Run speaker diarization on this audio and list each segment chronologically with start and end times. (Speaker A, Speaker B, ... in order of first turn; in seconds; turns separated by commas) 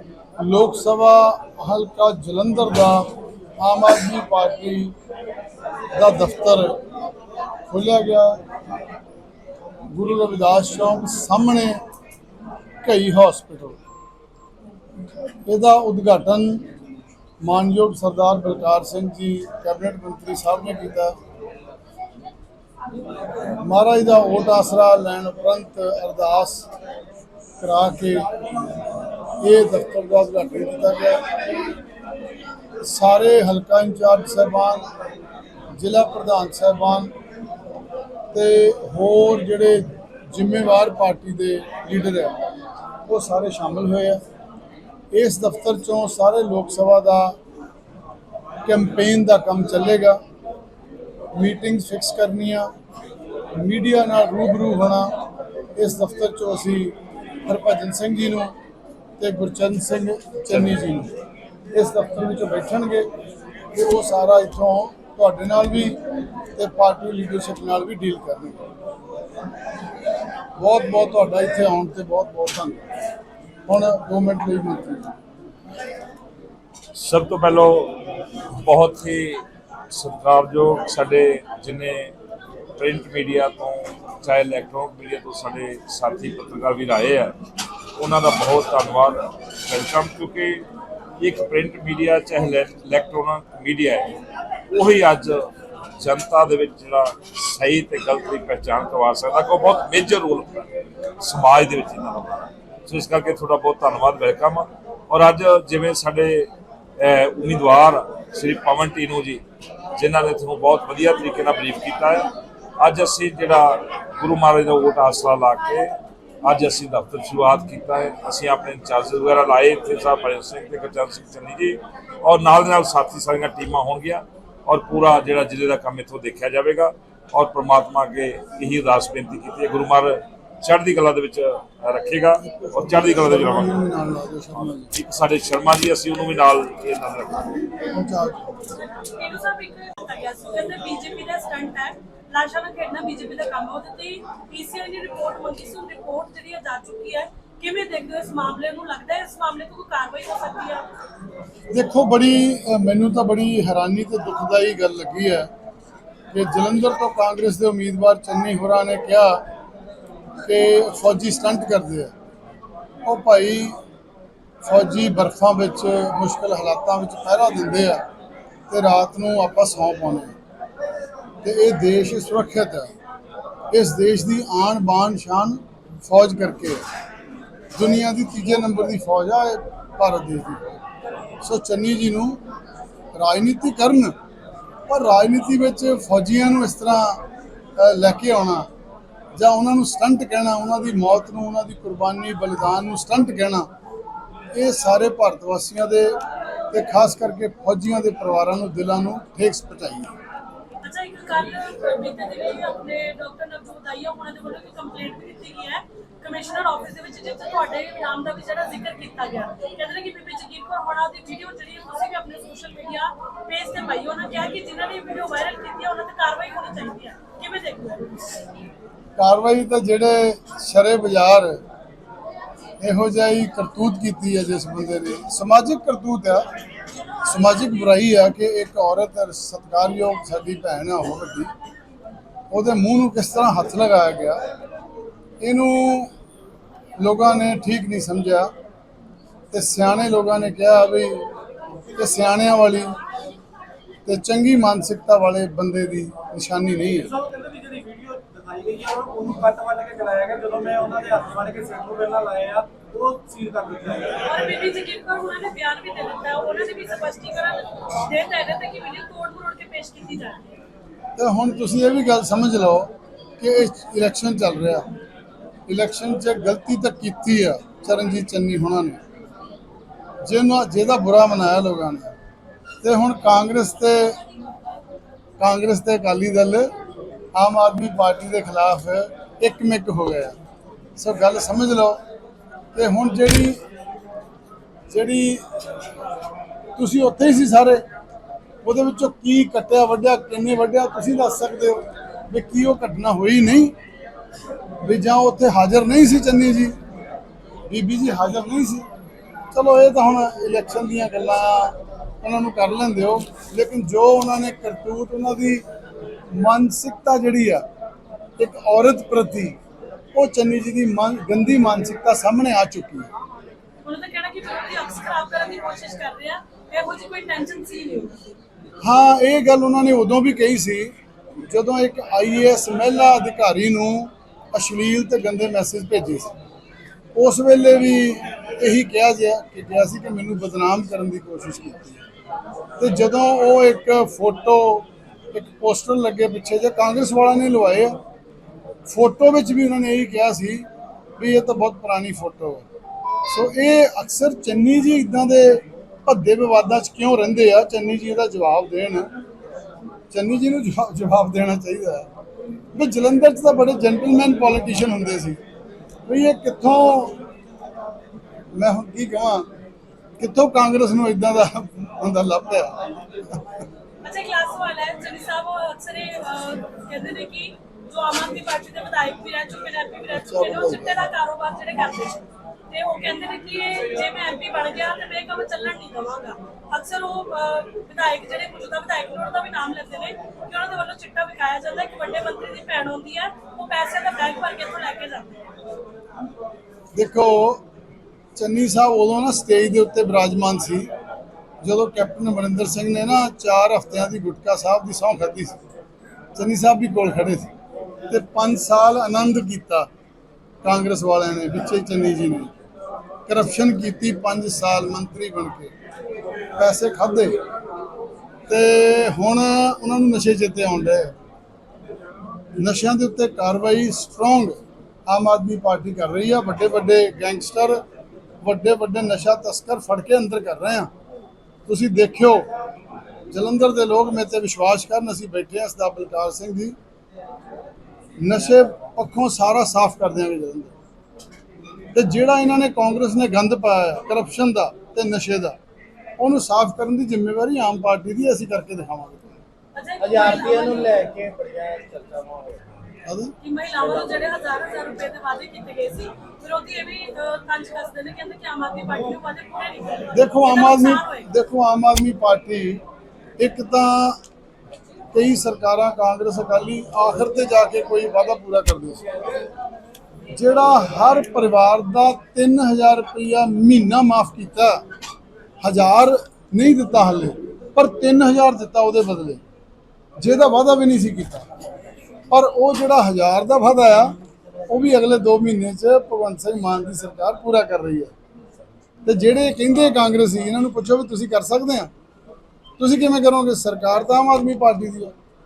Speaker A: 0.4-3.1, Speaker A: 3.6-4.9, Speaker A: 6.0-6.7, Speaker A: 7.7-8.4, Speaker A: 9.9-11.8, Speaker A: 12.8-13.8, Speaker A: 15.5-16.7, Speaker A: 17.4-21.1, Speaker A: 23.6-26.7, Speaker A: 27.6-28.3, Speaker A: 29.4-31.2, Speaker A: 32.8-34.8, Speaker A: 35.8-37.1, Speaker A: 38.3-42.4, Speaker A: 43.1-44.2, Speaker A: 45.1-47.4, Speaker A: 48.6-50.2, Speaker A: 51.3-52.7, Speaker A: 53.5-55.1, Speaker A: 55.8-58.5, Speaker A: 59.2-61.1, Speaker A: 61.7-63.1, Speaker A: 63.7-66.0, Speaker A: 66.5-68.7, Speaker A: 70.6-72.8, Speaker A: 73.7-75.1, Speaker B: 77.0-78.0, Speaker B: 78.6-82.1, Speaker B: 82.8-87.3, Speaker B: 88.0-90.6, Speaker B: 91.2-94.2, Speaker B: 94.7-100.7, Speaker B: 101.2-109.4, Speaker B: 110.0-133.8, Speaker A: 132.5-134.9, Speaker B: 134.9-137.6, Speaker A: 137.9-138.6, Speaker C: 138.8-150.8, Speaker A: 151.7-155.5, Speaker A: 156.3-159.4, Speaker A: 160.4-162.1, Speaker A: 163.1-163.8, Speaker A: 164.6-168.0, Speaker A: 168.7-170.3, Speaker A: 171.4-172.9, Speaker A: 173.7-176.8, Speaker A: 177.7-180.8, Speaker A: 181.4-182.4, Speaker A: 183.1-184.1, Speaker A: 184.9-187.2, Speaker A: 187.8-188.7, Speaker A: 189.3-193.7, Speaker A: 194.5-196.2, Speaker A: 196.7-200.1, Speaker C: 200.8-218.2, Speaker A: 219.2-221.6, Speaker A: 222.8-226.5, Speaker A: 227.2-231.5, Speaker A: 232.5-234.4, Speaker A: 235.4-236.1, Speaker A: 237.0-238.5, Speaker A: 239.5-241.3, Speaker A: 241.9-243.0, Speaker A: 244.1-247.1, Speaker D: 247.0-254.2, Speaker C: 254.2-260.5, Speaker A: 261.2-264.9, Speaker A: 265.7-269.0, Speaker A: 270.2-272.1, Speaker A: 272.8-274.2, Speaker A: 275.4-276.7, Speaker A: 277.3-280.4, Speaker A: 281.0-282.0, Speaker A: 282.7-283.6, Speaker A: 284.9-285.4, Speaker A: 286.8-287.8, Speaker A: 288.6-293.7, Speaker A: 294.8-296.8, Speaker A: 297.7-298.9, Speaker A: 299.5-305.6, Speaker A: 306.3-307.6, Speaker A: 308.4-309.6, Speaker A: 310.1-313.1, Speaker C: 313.8-318.1, Speaker A: 318.8-320.9, Speaker A: 321.5-326.3, Speaker A: 327.1-332.0, Speaker A: 332.8-338.0, Speaker A: 338.9-340.7, Speaker A: 341.2-342.6, Speaker A: 343.3-349.1, Speaker A: 350.1-352.1, Speaker A: 352.7-355.4, Speaker A: 356.1-357.2, Speaker A: 358.5-359.5, Speaker A: 360.2-363.4, Speaker C: 364.0-385.4, Speaker A: 370.1-371.1, Speaker A: 386.9-387.6, Speaker A: 388.4-390.9, Speaker A: 391.6-395.6, Speaker A: 396.4-397.5, Speaker A: 398.1-399.9, Speaker A: 400.6-402.5, Speaker A: 403.3-405.7, Speaker A: 406.6-407.4, Speaker A: 408.5-411.1, Speaker A: 412.6-417.8, Speaker A: 418.4-420.9, Speaker A: 421.7-422.5, Speaker A: 423.3-426.8, Speaker A: 428.2-430.7, Speaker A: 431.9-435.6, Speaker A: 436.2-439.3, Speaker C: 439.8-441.0, Speaker D: 440.0-442.6, Speaker A: 443.1-443.3, Speaker C: 443.4-451.3, Speaker A: 450.1-452.8, Speaker A: 453.4-454.2, Speaker A: 455.1-459.1, Speaker A: 460.3-464.8, Speaker A: 465.6-469.4, Speaker A: 470.2-471.5, Speaker A: 472.3-474.1, Speaker A: 474.7-478.1, Speaker A: 479.1-481.9, Speaker A: 482.8-485.1